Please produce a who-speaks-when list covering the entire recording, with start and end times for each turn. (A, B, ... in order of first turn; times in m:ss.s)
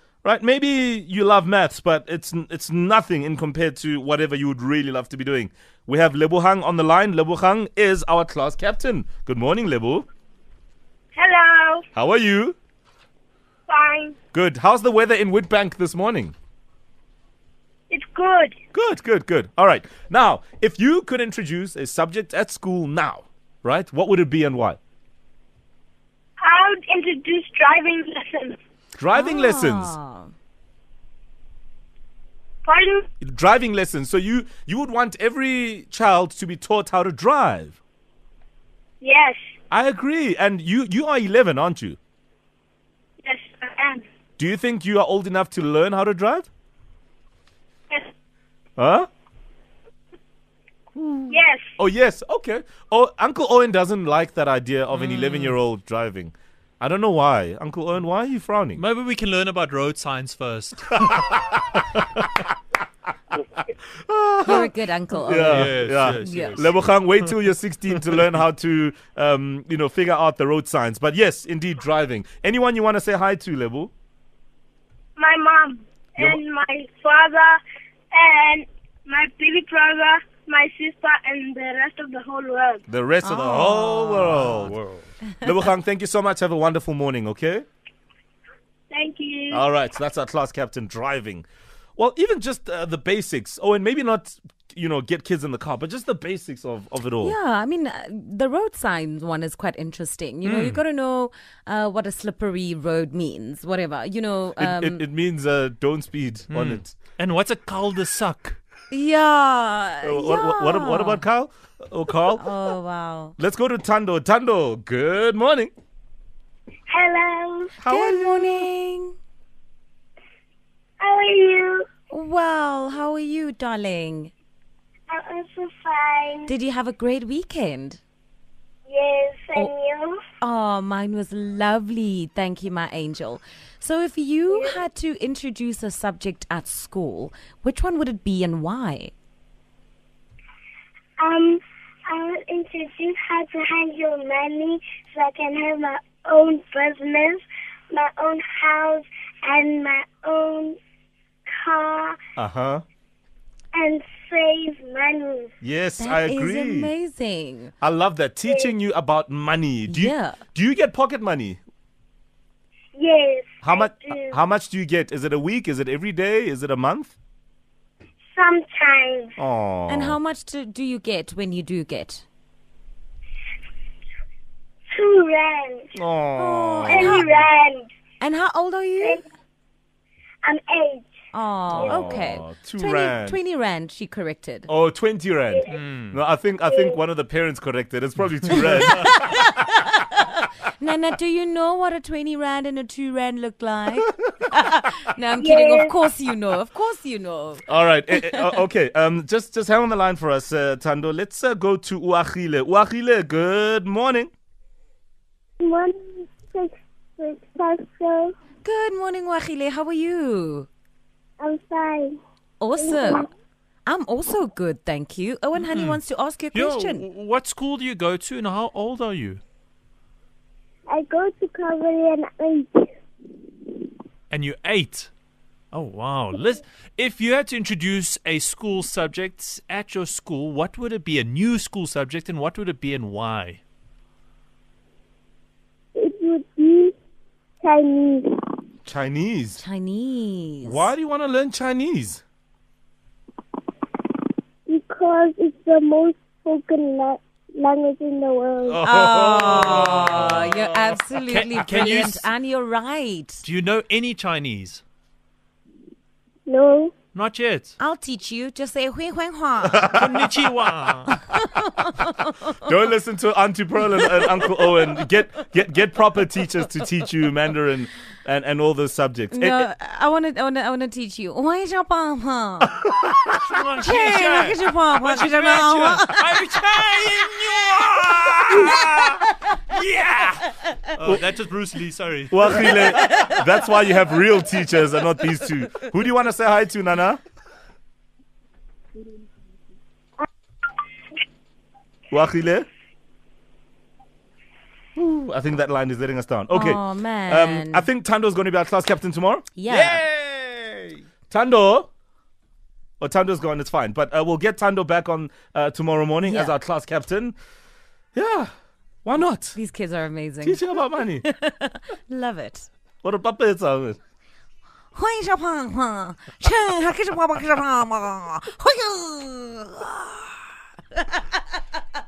0:00.2-0:10.1 A
0:11.2-0:11.8 B
0:12.0-0:12.6 A
0:13.7-0:14.2 B
0:14.3-0:16.4 A
0:17.9-0:18.6 B
0:18.7-0:24.8 A
0:26.4-0:28.6 B
0:29.0-0:30.0 A
0:29.1-0:30.3 C
0:32.6-0:33.0 B
0:33.2-0:37.8 A
0:39.0-0:39.4 B
0:39.7-0:42.0 A
0:43.2-0:44.0 B
0:44.4-0:46.5 A
0:48.8-0:49.1 A
0:51.0-0:58.8 A
0:51.3-0:51.6 B
0:55.0-0:55.6 D
0:58.8-1:01.2 D
1:00.9-1:02.2 A
1:04.0-1:04.7 A
1:04.4-1:06.7 C
1:05.2-1:13.9 A
1:05.5-1:07.3 D
1:15.2-1:17.6 B
1:18.1-1:22.8 B
1:22.9-1:24.8 A
1:23.2-1:24.6 C
1:24.1-1:25.0 D
1:25.4-1:27.7 A
1:28.9-1:29.6 B
1:29.5-1:31.5 A
1:32.0-1:37.4 A
1:37.2-1:45.1 C
1:40.4-1:40.8 D
1:44.6-1:46.9 A
1:46.5-1:48.6 D
1:48.9-1:51.2 C
1:50.0-1:52.5 A
1:52.3-1:53.3 C
1:53.4-1:55.7 A
1:56.9-1:57.7 B
1:57.8-1:58.7 A
1:57.9-1:59.2 C
2:01.0-2:01.9 B
2:02.1-2:04.3 C
2:05.1-2:06.5 B
2:06.5-2:08.0 C
2:08.9-2:10.2 B
2:10.4-2:19.1 C
2:14.5-2:14.8 B
2:21.2-2:30.8 B
2:31.5-2:32.2 B
2:32.4-2:32.8 A
2:33.7-2:35.5 B
2:35.6-2:36.9 A
2:36.0-2:37.7 C
2:37.8-2:41.6 A
2:38.4-2:38.7 B
2:39.9-2:40.4 C
2:43.0-2:44.4 B
2:43.6-2:47.2 A
2:48.3-2:49.4 B
2:49.4-2:50.2 A
2:49.9-2:52.2 C
2:54.9-2:55.9 B
2:56.0-2:57.2 A
2:56.4-2:57.4 C
2:56.9-2:57.9 B
2:58.2-2:59.2 C
3:00.4-3:01.1 B
3:01.3-3:04.7 C
3:01.7-3:03.4 A
3:01.8-3:02.2 B
3:04.7-3:09.1 A
3:05.7-3:06.2 D
3:06.7-3:07.0 B
3:08.8-3:18.6 C
3:15.4-3:16.0 B
3:17.7-3:24.3 A
3:25.6-3:28.3 B
3:28.6-3:30.7 C
3:31.4-3:32.2 B
3:32.6-3:33.3 C
3:32.8-3:33.3 B
3:33.9-3:37.1 C
3:35.6-3:39.4 D
3:40.9-3:42.9 B
3:44.3-3:45.1 D
3:45.7-3:53.6 D
3:56.0-3:56.9 B
3:57.6-3:58.4 B
3:58.9-3:59.6 A
3:59.6-4:00.9 C
4:00.6-4:02.2 A
4:04.7-4:08.8 B
4:08.7-4:10.5 A
4:08.8-4:13.4 C
4:09.7-4:10.5 D
4:11.2-4:12.3 D
4:13.4-4:14.8 D
4:16.5-4:16.9 B
4:17.1-4:17.8 D
4:17.8-4:20.0 C
4:19.7-4:20.3 A
4:19.9-4:21.2 D
4:21.1-4:22.3 C
4:22.6-4:29.7 A
4:24.0-4:24.3 C
4:29.3-4:32.8 C
4:33.3-4:38.8 D
4:33.8-4:36.5 C
4:38.5-4:39.1 A
4:38.6-4:39.5 C
4:39.6-4:43.0 D
4:42.3-4:47.2 A
4:42.9-4:43.4 C
4:52.1-4:52.7 A
4:55.0-5:01.9 A
4:56.5-4:57.9 C
4:59.6-5:00.0 C
5:03.0-5:07.4 A
5:06.2-5:06.6 C
5:08.2-5:08.5 A
5:09.0-5:09.6 A
5:09.6-5:12.7 C
5:10.4-5:11.2 A
5:13.0-5:14.0 A
5:15.0-5:20.3 C
5:21.0-5:21.2 C